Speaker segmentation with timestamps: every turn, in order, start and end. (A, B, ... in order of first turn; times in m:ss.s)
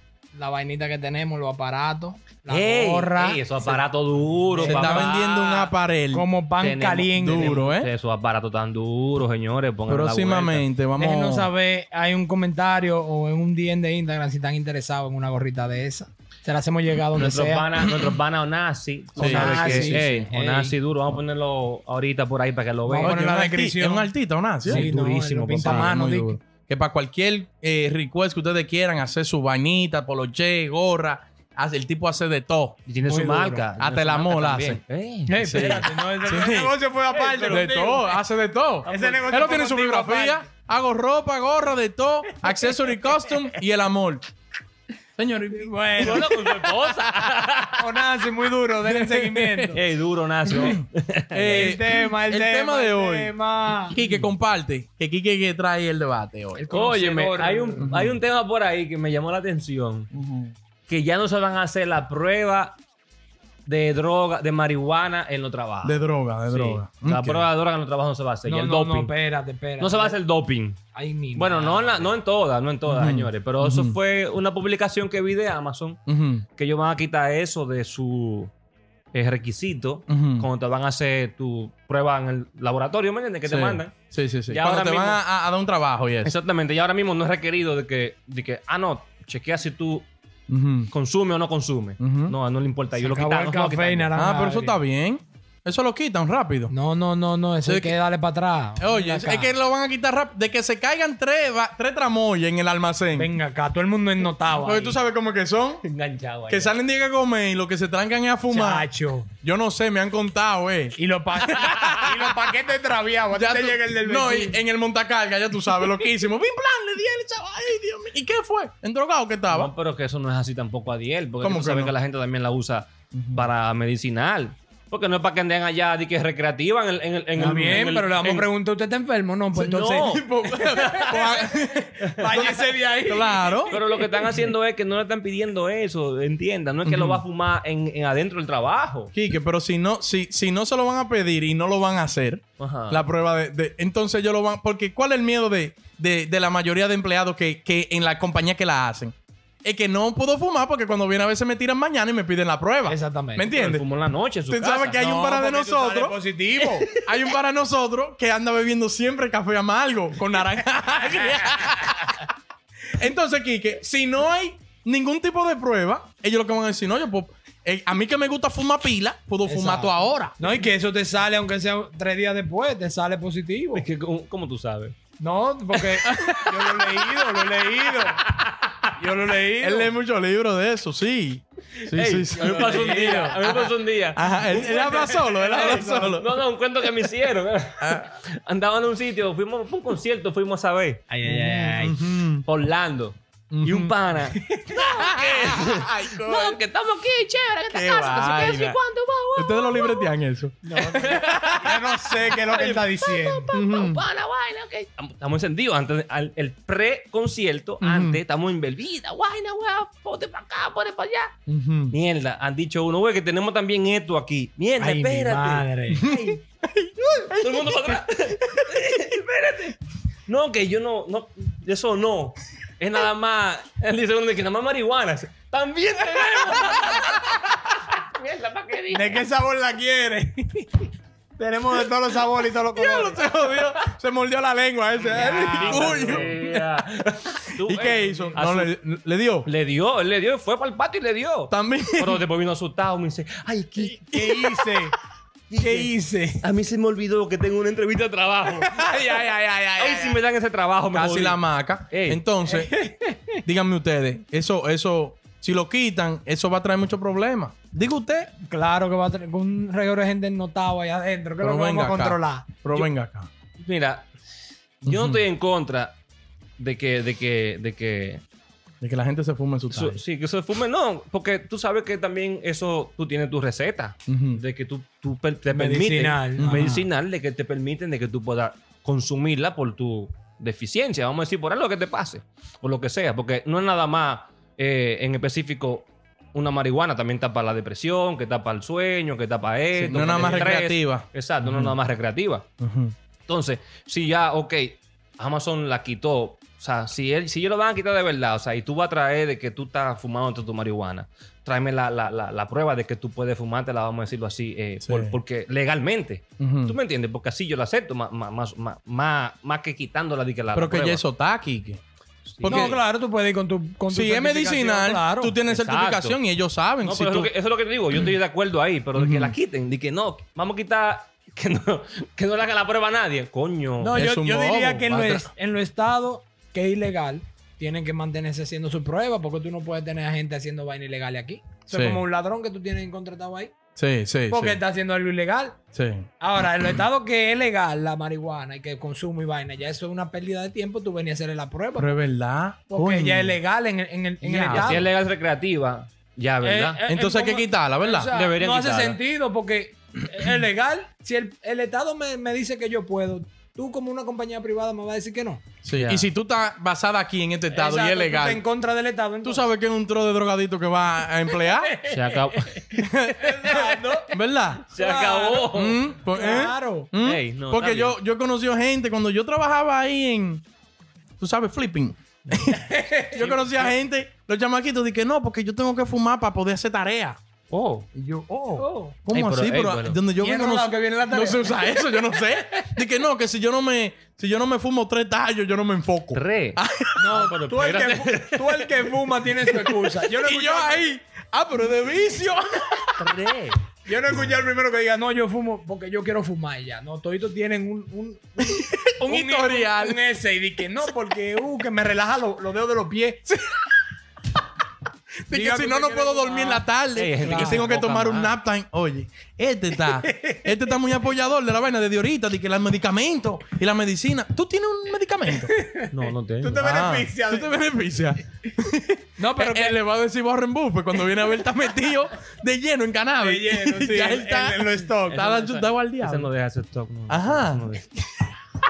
0:00.3-0:07.7 A
0:02.5-0:05.6 B
0:04.6-0:06.3 C
0:06.6-0:10.6 B
0:07.2-0:07.9 C
0:09.9-0:11.5 C
0:11.0-0:17.8 A
0:17.2-0:23.2 B
0:19.2-0:20.1 C
0:19.2-0:20.7 A
0:22.8-0:24.1 A
0:23.0-0:24.9 C
0:24.6-0:26.4 A
0:24.6-0:26.0 B
0:25.6-0:32.8 C
0:32.8-0:35.8 B
0:33.1-0:33.6 A
0:33.8-0:34.8 C
0:35.3-0:38.1 A
0:35.4-0:36.7 C
0:37.1-0:37.7 B
0:37.5-0:44.2 C
0:38.8-0:39.4 B
0:38.8-0:40.5 A
0:42.4-0:43.4 A
0:45.2-0:46.3 C
0:45.6-0:46.7 A
0:46.0-0:47.9 B
0:47.8-0:49.8 A
0:48.9-0:49.7 C
0:49.7-0:51.8 B
0:50.5-0:53.3 C
0:51.5-0:54.0 A
0:53.9-0:56.7 C
0:54.0-0:54.3 B
0:56.6-0:57.9 A
0:56.7-1:00.1 B
0:57.8-0:58.2 C
1:00.1-1:00.5 C
1:00.9-1:02.8 B
1:03.7-1:09.1 B
1:05.8-1:07.5 C
1:08.4-1:10.2 A
1:09.8-1:10.8 B
1:10.9-1:12.1 A
1:11.3-1:16.0 B
1:12.9-1:14.0 C
1:16.1-1:16.4 C
1:16.6-1:18.5 B
1:19.1-1:23.9 B
1:20.1-1:20.5 C
1:23.4-1:26.3 C
1:24.5-1:25.2 B
1:26.2-1:30.1 B
1:30.5-1:30.9 C
1:30.9-1:34.2 B
1:32.0-1:32.3 C
1:32.9-1:34.8 A
1:34.2-1:36.7 C
1:36.7-1:39.5 A
1:37.6-1:38.0 C
1:38.8-1:43.3 C
1:43.2-1:45.0 A
1:44.5-1:45.8 C
1:45.8-1:46.8 B
1:46.5-1:48.9 C
1:48.5-1:49.3 A
1:49.4-1:52.3 C
1:51.0-1:54.6 A
1:53.3-1:59.7 C
1:59.5-2:08.5 B
2:01.4-2:02.0 C
2:03.1-2:03.5 C
2:07.4-2:14.2 A
2:07.4-2:07.9 C
2:09.5-2:11.4 B
2:10.0-2:13.8 C
2:12.2-2:12.5 B
2:13.7-2:19.1 B
2:16.8-2:17.2 C
2:19.1-2:33.8 C
2:22.6-2:23.0 B
2:32.9-2:33.5 A
2:33.5-2:35.0 B
2:34.5-2:36.2 C
2:35.0-2:36.9 A
2:36.9-2:42.3 C
2:42.9-2:50.4 C
2:49.4-2:53.9 A
2:53.7-2:54.9 B
2:55.2-2:58.2 A
2:56.0-2:57.2 C
2:58.2-2:58.8 B
2:59.0-2:59.9 A
2:59.6-3:06.4 C
3:01.9-3:20.1 B
3:02.4-3:03.4 A
3:04.4-3:06.2 A
3:07.8-3:08.1 C
3:11.2-3:11.7 A
3:11.3-3:12.4 C
3:13.5-3:14.0 C
3:14.5-3:14.8 A
3:14.8-3:16.6 C
3:17.7-3:18.8 C
3:19.3-3:21.9 C
3:20.6-3:23.4 A
3:20.8-3:31.3 B
3:23.5-3:24.0 C
3:27.8-3:28.2 C
3:31.5-3:32.0 C
3:31.9-3:36.4 B
3:34.8-3:36.1 A
3:36.0-3:38.7 C
3:37.2-3:49.2 B
3:48.9-3:53.3 A
3:52.7-3:56.8 C
3:55.1-3:56.3 A
3:55.1-3:58.7 B
3:57.6-3:59.5 C
3:57.9-3:58.4 A
3:59.4-4:04.3 B
4:01.5-4:02.2 C
4:04.1-4:04.5 C
4:04.1-4:04.9 A
4:05.5-4:08.8 B
4:05.6-4:06.4 A
4:08.5-4:10.2 A
4:09.8-4:12.2 B
4:10.9-4:12.7 C
4:12.4-4:13.4 A
4:13.4-4:18.3 C
4:18.4-4:22.5 A
4:21.4-4:23.3 C
4:23.6-4:24.1 B
4:24.8-4:25.9 B
4:24.8-4:25.2 C
4:26.6-4:28.2 B
4:28.8-4:30.0 C
4:29.7-4:52.4 B
4:34.1-4:34.4 C
4:35.5-4:36.8 A
4:36.4-4:36.8 C
4:49.7-4:51.8 C
4:52.6-4:52.9 C
4:53.3-5:11.0 B
5:04.8-5:05.2 C
5:06.4-5:06.8 C
5:10.5-5:11.8 C
5:12.2-5:12.8 B
5:12.4-5:12.8 C
5:12.4-5:15.4 A
5:13.9-5:17.3 C
5:15.5-5:16.2 B
5:16.8-5:24.0 B
5:18.9-5:19.4 C
5:23.8-5:33.5 A
5:23.9-5:25.3 C
5:31.7-5:32.0 C
5:33.8-5:34.6 C
5:34.3-5:35.6 A
5:35.8-5:36.1 C
5:36.2-5:41.9 A
5:41.8-5:43.4 C
5:42.7-5:44.9 A
5:44.2-5:44.9 C
5:44.4-5:46.8 B
5:46.4-5:55.4 A
5:46.9-5:48.1 C
5:48.1-5:49.0 B
5:55.6-5:58.4 C
5:55.8-5:56.1 B
5:57.5-5:59.5 A
5:59.2-6:01.7 C
6:01.3-6:02.6 A
6:01.9-6:02.8 B
6:02.7-6:04.6 C
6:03.2-6:04.1 A
6:04.7-6:05.8 B
6:04.7-6:05.5 A
6:05.5-6:10.4 C
6:06.1-6:06.9 A
6:07.0-6:08.0 B
6:11.2-6:17.2 C
6:12.5-6:13.1 A
6:13.2-6:13.7 B
6:17.5-6:17.8 B
6:17.9-6:27.1 C
6:18.6-6:19.0 A
6:19.1-6:20.0 B
6:20.2-6:22.0 A
6:26.1-6:28.6 B
6:27.0-6:30.9 A
6:29.2-6:33.3 C
6:33.0-6:33.6 B
6:33.8-6:43.3 A
6:38.4-6:40.0 C
6:45.3-6:55.5 C
6:45.3-6:46.7 A
6:46.9-6:48.4 B
6:47.2-6:47.7 A
6:49.8-6:50.4 A
6:55.3-6:57.5 A
6:55.9-6:56.6 B
6:56.6-7:06.3 C
6:59.2-6:59.8 A
7:03.2-7:05.2 A
7:05.1-7:07.9 B
7:07.1-7:07.8 C